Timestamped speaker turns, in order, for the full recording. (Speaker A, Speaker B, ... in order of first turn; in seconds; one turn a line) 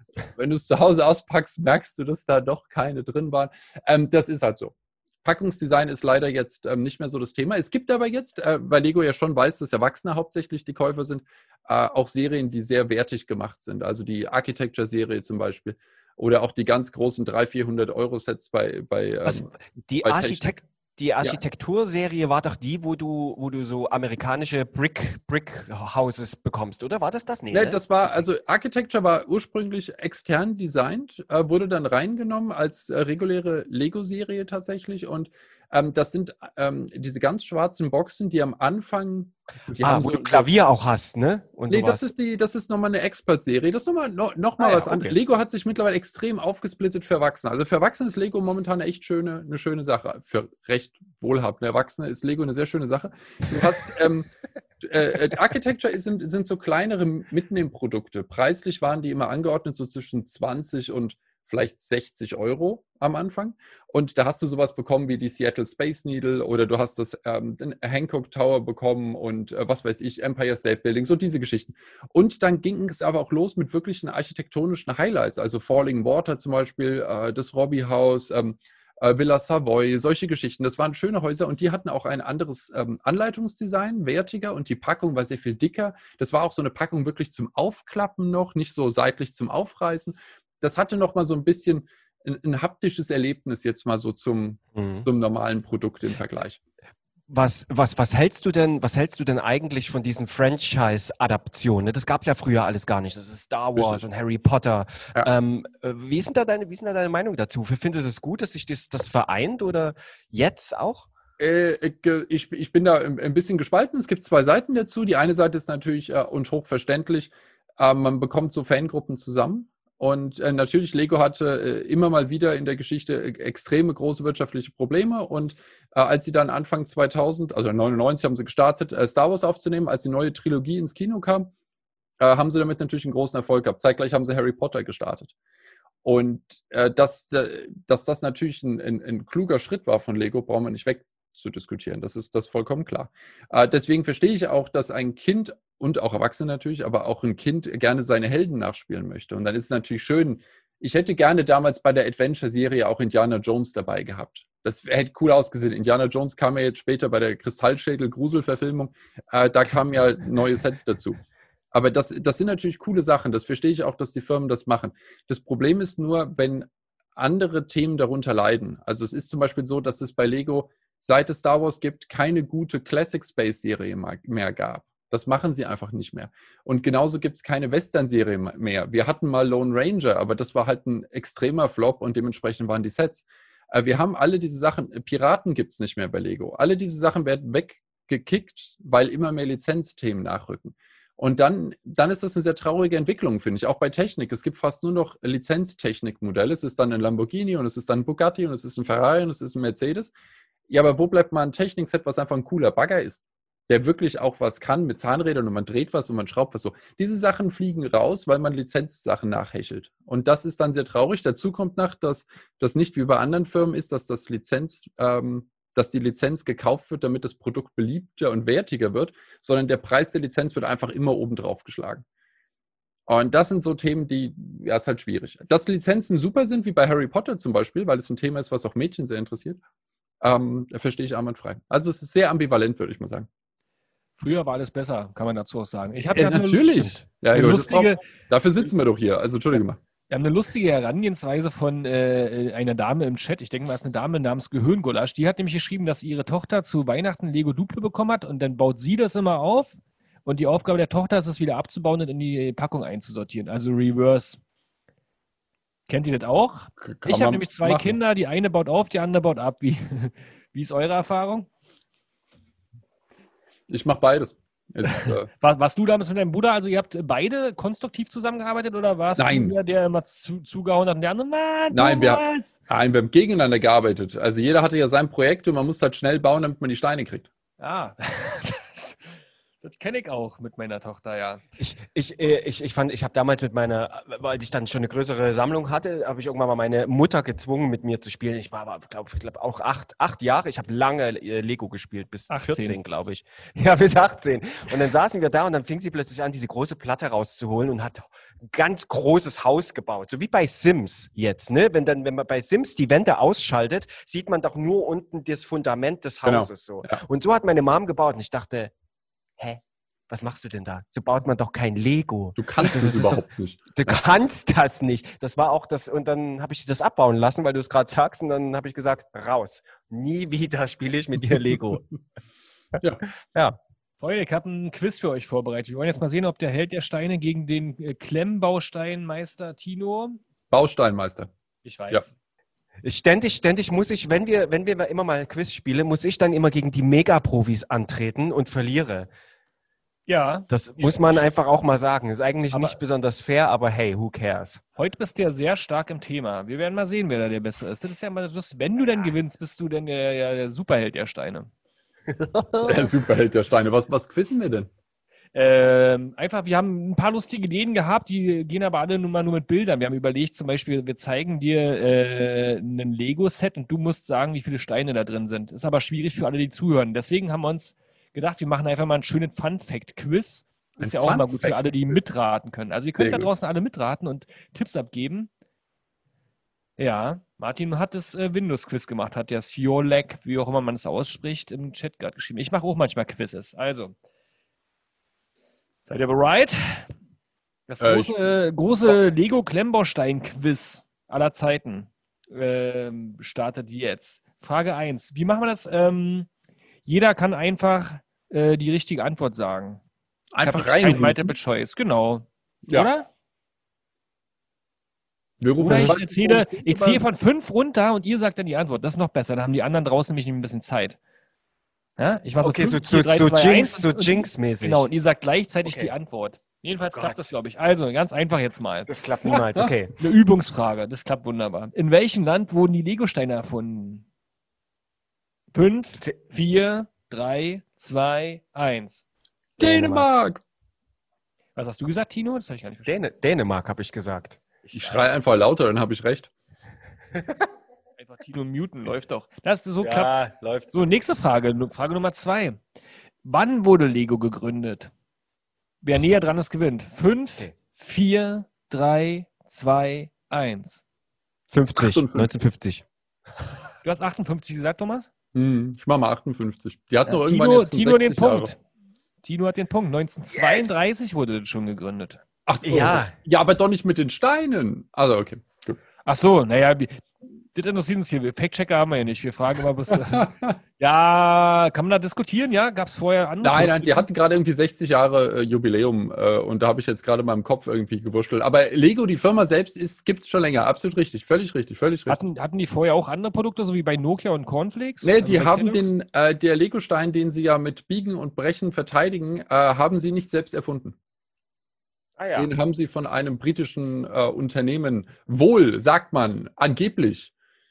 Speaker A: 0.3-19.5
Speaker B: 19.2-28.2
Speaker A: 20.0-20.5
Speaker A: 27.5-40.5
Speaker B: 39.8-42.1
Speaker A: 41.7-54.3
Speaker B: 44.6-45.1
Speaker A: 54.8-96.6
Speaker B: 94.8-95.1
Speaker B: 97.3-111.1
Speaker A: 103.8-104.0
Speaker A: 111.4-131.5
Speaker A: 132.2-135.3
Speaker A: 136.0-161.2
Speaker A: 161.7-200.1
Speaker A: 200.7-222.0
Speaker A: 223.1-229.6
Speaker A: 230.2-233.3
Speaker C: 234.2-238.0
Speaker A: 236.1-239.8
Speaker C: 240.1-254.4
Speaker C: 255.9-261.5
Speaker A: 256.8-258.0
Speaker A: 263.7-265.3
Speaker C: 264.9-272.5
Speaker A: 269.2-269.6
Speaker A: 271.7-277.3
Speaker C: 277.6-281.4
Speaker B: 281.6-308.7
Speaker C: 292.3-292.8
Speaker A: 306.2-307.0
Speaker B: 309.4-321.8
Speaker A: 312.4-314.0
Speaker C: 324.0-330.2
Speaker A: 330.5-331.3
Speaker C: 331.6-332.1
Speaker B: 332.8-339.1
Speaker C: 340.1-341.2
Speaker B: 340.5-344.6
Speaker C: 342.5-342.8
Speaker C: 344.8-351.5
Speaker B: 352.1-352.8
Speaker A: 352.6-354.7
Speaker C: 355.3-375.3
Speaker A: 370.8-372.0
Speaker A: 373.0-373.3
Speaker C: 376.8-383.9
Speaker C: 385.9-386.9
Speaker C: 387.7-396.3
Speaker A: 387.8-388.3
Speaker C: 396.9-399.8
Speaker A: 400.3-401.3
Speaker C: 400.4-403.1
Speaker A: 405.4-407.0
Speaker C: 405.6-411.0
Speaker C: 412.0-418.9
Speaker B: 412.4-414.9
Speaker B: 415.6-415.9
Speaker B: 416.9-417.3
Speaker B: 418.9-419.9
Speaker A: 419.2-419.7
Speaker C: 420.0-424.0
Speaker C: 425.5-429.0
Speaker A: 429.6-430.4
Speaker B: 429.6-430.1
Speaker C: 431.6-433.0
Speaker B: 432.9-434.4
Speaker A: 434.7-436.3
Speaker B: 437.1-437.4
Speaker C: 438.0-442.6
Speaker B: 439.8-440.7
Speaker C: 443.2-444.9
Speaker C: 445.8-450.8
Speaker B: 451.5-452.8
Speaker A: 451.8-452.4
Speaker C: 453.8-455.1
Speaker A: 455.3-458.5
Speaker C: 457.1-458.6
Speaker C: 459.2-462.2
Speaker A: 462.5-465.8
Speaker B: 462.6-463.1
Speaker C: 466.1-474.1
Speaker A: 469.9-470.6
Speaker A: 473.4-482.2
Speaker C: 482.1-485.9
Speaker A: 485.0-490.9
Speaker B: 492.2-492.5
Speaker A: 492.3-497.3